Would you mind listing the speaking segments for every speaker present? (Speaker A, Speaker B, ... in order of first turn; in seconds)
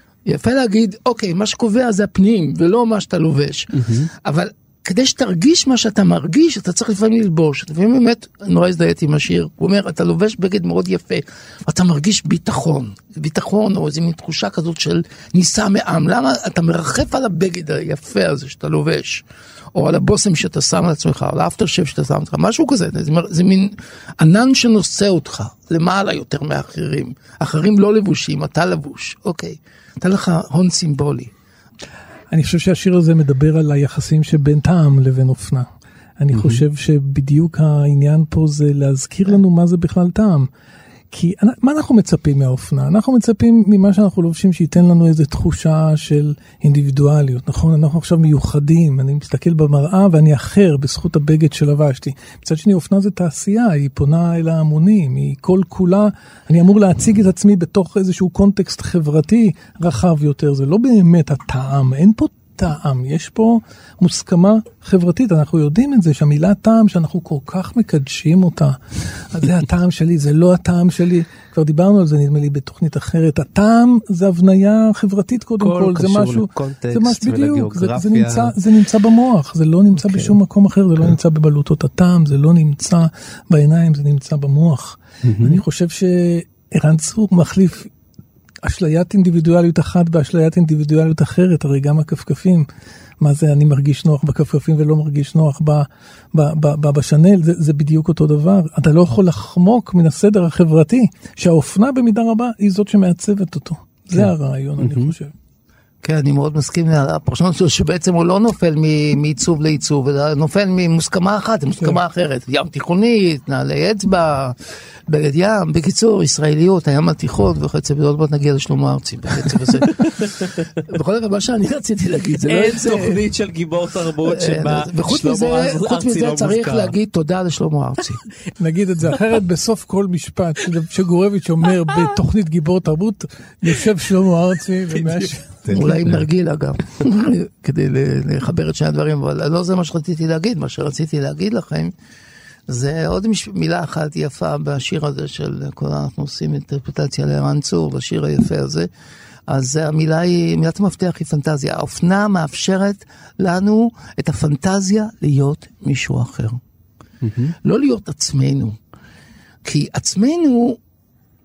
Speaker A: 0.3-3.7, 4.2-19.2, 19.7-31.3, 106.0-114.5, 115.1-120.3, 120.9-123.2, 124.2-128.2, 135.7-141.9, 142.7-148.9, 149.5-156.6, 157.6-158.8, 159.6-160.8
Speaker B: 3.7-4.1, 36.3-36.6, 75.6-78.5, 79.9-80.3, 85.2-85.6, 104.1-105.1, 122.5-126.9, 135.0-136.2, 157.2-157.5
Speaker C: 32.3-35.7, 36.2-40.5, 41.1-68.8, 69.3-87.9, 88.6-92.7, 93.2-105.3, 128.6-135.8